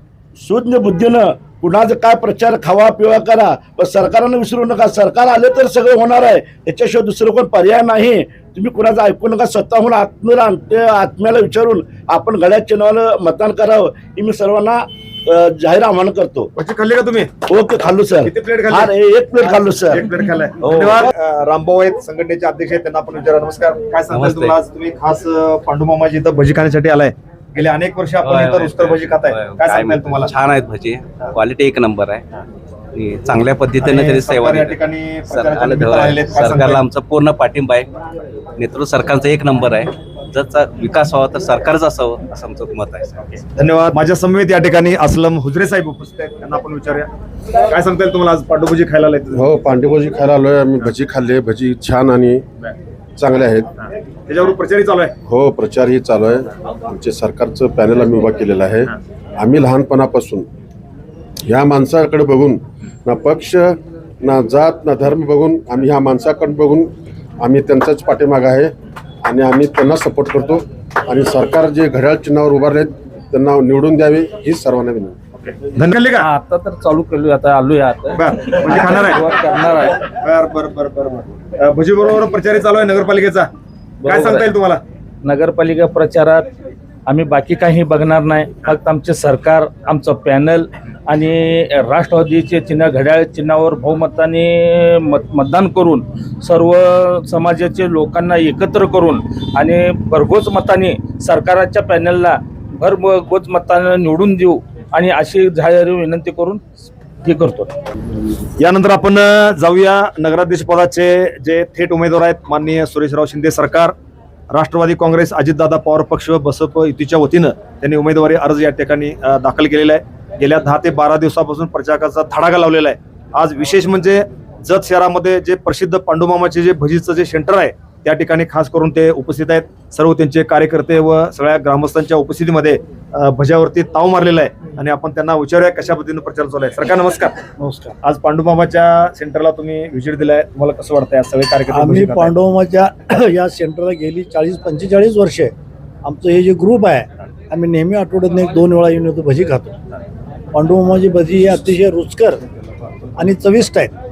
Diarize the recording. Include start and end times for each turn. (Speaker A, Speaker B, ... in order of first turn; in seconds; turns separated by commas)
Speaker A: 0.4-16.5, Speaker B: 16.6-17.3, Speaker A: 17.5-20.1, Speaker B: 18.2-30.3, Speaker A: 20.6-21.1, Speaker C: 24.1-24.5, Speaker C: 28.2-32.2, Speaker C: 32.9-34.8, Speaker B: 33.8-36.8, Speaker C: 35.3-37.9, Speaker C: 38.6-43.3, Speaker B: 43.4-47.1, Speaker B: 47.7-49.4, Speaker D: 49.3-52.4, Speaker D: 53.2-53.7, Speaker B: 54.3-55.1, Speaker D: 55.2-60.5, Speaker D: 61.5-68.7, Speaker D: 69.2-75.2, Speaker B: 75.4-76.2, Speaker E: 76.2-80.0, Speaker B: 78.1-79.3, Speaker B: 80.1-83.5, Speaker E: 84.0-84.5, Speaker B: 84.0-84.8, Speaker E: 85.2-86.5, Speaker E: 87.1-106.7, Speaker E: 107.2-107.7, Speaker B: 108.6-113.9, Speaker B: 114.5-137.4, Speaker F: 137.6-137.9, Speaker B: 138.0-142.3, Speaker F: 141.7-145.5, Speaker F: 146.0-149.7, Speaker F: 150.5-152.4, Speaker F: 153.2-153.9